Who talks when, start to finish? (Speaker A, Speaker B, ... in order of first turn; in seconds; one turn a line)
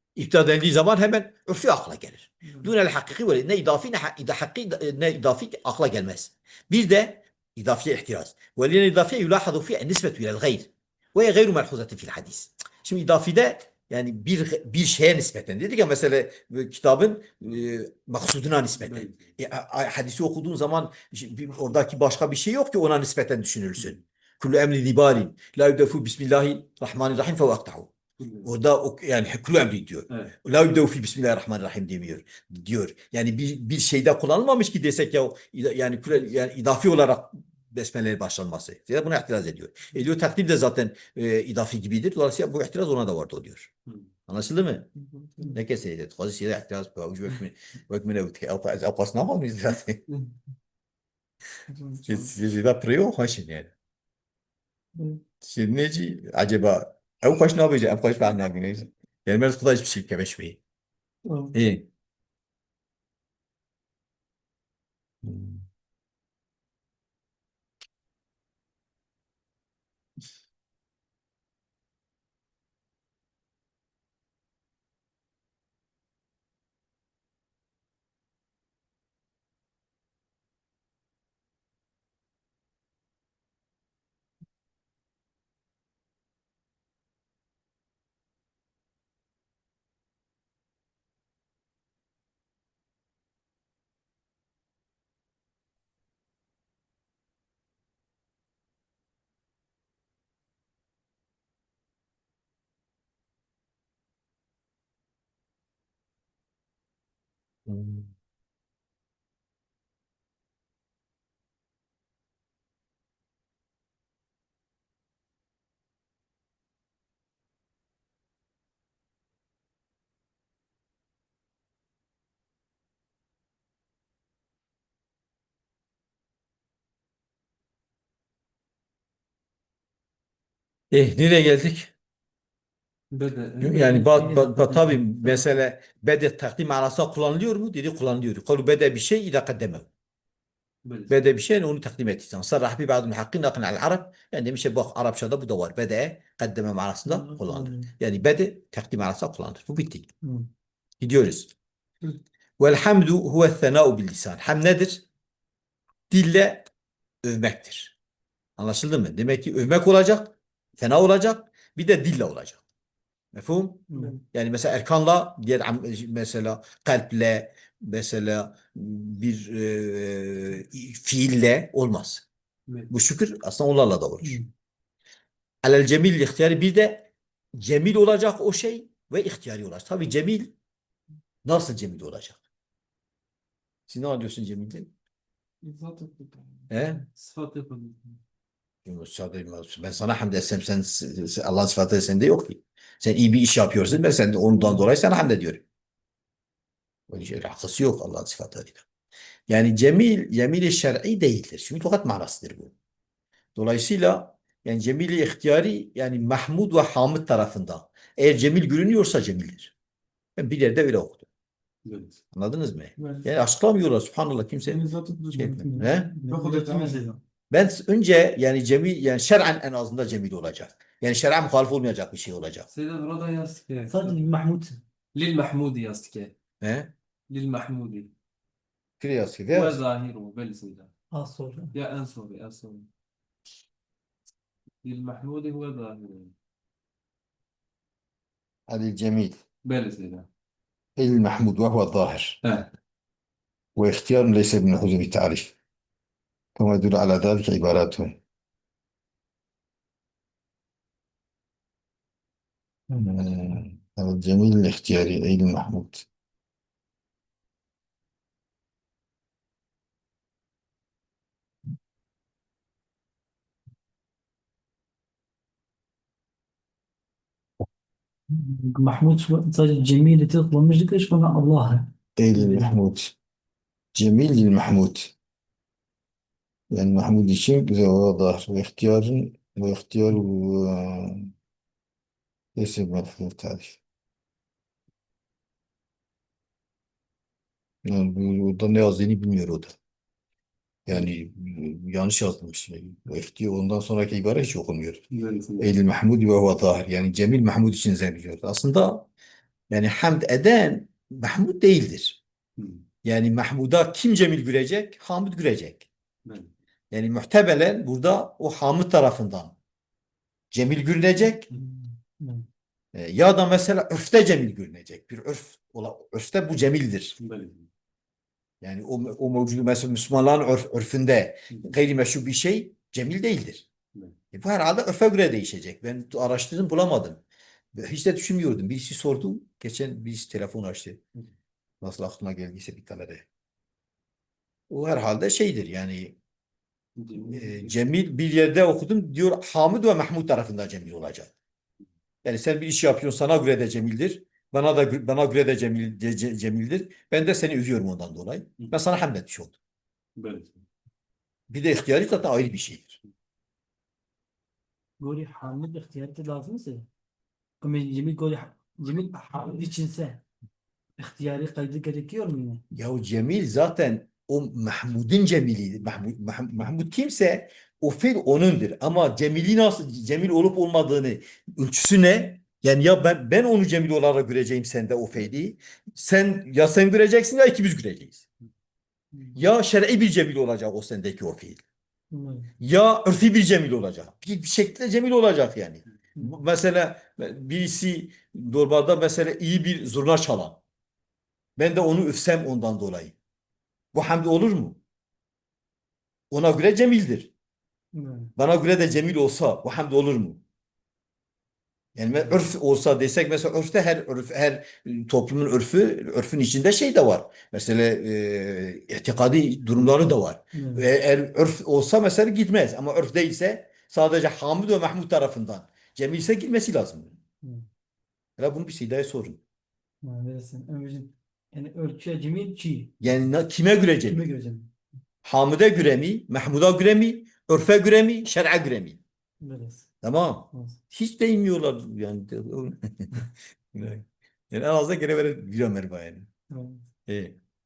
Speaker A: 0.2-27.9
Speaker B: 18.8-19.2
Speaker B: 28.2-28.5
Speaker A: 28.4-43.7
Speaker A: 44.3-44.9
Speaker C: 45.1-45.5
Speaker A: 45.5-50.0
Speaker C: 51.8-52.3
Speaker A: 52.1-53.7
Speaker D: 55.0-55.2
Speaker A: 55.4-60.6
Speaker D: 61.3-61.5
Speaker A: 61.5-61.9
Speaker A: 65.2-65.6
Speaker A: 107.7-108.1
Speaker A: 130.9-131.9
Speaker B: 133.1-134.3
Speaker A: 133.6-139.9
Speaker D: 134.1-135.5
Speaker B: 140.8-141.1
Speaker A: 141.1-150.1
Speaker D: 147.1-147.9
Speaker D: 150.2-150.5
Speaker A: 151.0-151.5
Speaker A: 152.6-155.1
Speaker A: 156.1-156.7
Speaker A: 157.2-158.0
Speaker A: 158.6-162.6
Speaker A: 163.3-172.3
Speaker D: 163.9-164.2
Speaker A: 172.9-174.4
Speaker D: 174.2-174.5
Speaker A: 175.6-180.5
Speaker A: 181.4-182.4
Speaker A: 183.9-184.9
Speaker C: 185.6-186.7
Speaker A: 186.7-187.0
Speaker B: 187.1-188.2
Speaker A: 188.8-195.6
Speaker A: 197.1-198.8
Speaker A: 199.5-202.7
Speaker A: 203.6-209.7
Speaker A: 210.4-211.3
Speaker B: 211.8-212.2
Speaker A: 212.3-216.1
Speaker C: 213.0-213.3
Speaker C: 214.7-217.2
Speaker D: 215.5-217.2
Speaker A: 217.5-222.7
Speaker B: 222.7-224.2
Speaker D: 223.9-224.8
Speaker B: 225.2-226.3
Speaker A: 226.6-226.9
Speaker B: 227.3-228.1
Speaker A: 229.0-229.8
Speaker B: 229.5-230.9
Speaker D: 231.1-231.7
Speaker B: 231.7-232.9
Speaker B: 234.8-236.3
Speaker A: 238.7-239.4
Speaker B: 239.7-240.3
Speaker A: 241.0-242.4
Speaker B: 242.4-242.7
Speaker A: 243.8-245.6
Speaker A: 246.6-248.2
Speaker A: 253.0-256.1
Speaker D: 268.3-271.9
Speaker A: 272.2-273.2
Speaker A: 273.9-275.1
Speaker A: 276.7-281.3
Speaker A: 282.6-283.8
Speaker A: 287.9-289.8
Speaker A: 290.9-295.0
Speaker B: 295.1-295.7
Speaker A: 295.6-299.1
Speaker A: 299.7-302.2
Speaker B: 302.6-302.8
Speaker A: 303.0-305.9
Speaker B: 306.2-306.5
Speaker A: 306.9-309.6
Speaker A: 310.5-311.5
Speaker D: 311.5-312.4
Speaker A: 312.9-317.2
Speaker B: 317.2-317.7
Speaker A: 318.6-323.7
Speaker A: 324.3-327.2
Speaker A: 327.8-331.0
Speaker A: 331.8-333.3
Speaker A: 334.7-336.2
Speaker B: 337.0-337.7
Speaker A: 337.2-341.3
Speaker A: 342.2-349.6
Speaker B: 350.2-350.6
Speaker A: 351.5-353.0
Speaker D: 355.0-356.9
Speaker D: 357.6-360.2
Speaker D: 361.0-362.6
Speaker A: 362.7-378.2
Speaker A: 379.4-381.6
Speaker D: 382.1-382.5
Speaker A: 382.6-390.6
Speaker A: 391.6-393.1
Speaker A: 393.9-394.8
Speaker A: 396.3-397.3
Speaker D: 397.9-398.3
Speaker A: 398.4-400.4
Speaker A: 402.0-417.2
Speaker D: 410.5-410.9
Speaker A: 418.4-419.4
Speaker D: 420.0-423.0
Speaker A: 423.0-424.2
Speaker D: 424.1-424.7
Speaker A: 425.2-429.0
Speaker D: 429.4-429.9
Speaker A: 430.0-436.3
Speaker D: 436.5-436.8
Speaker A: 437.1-437.4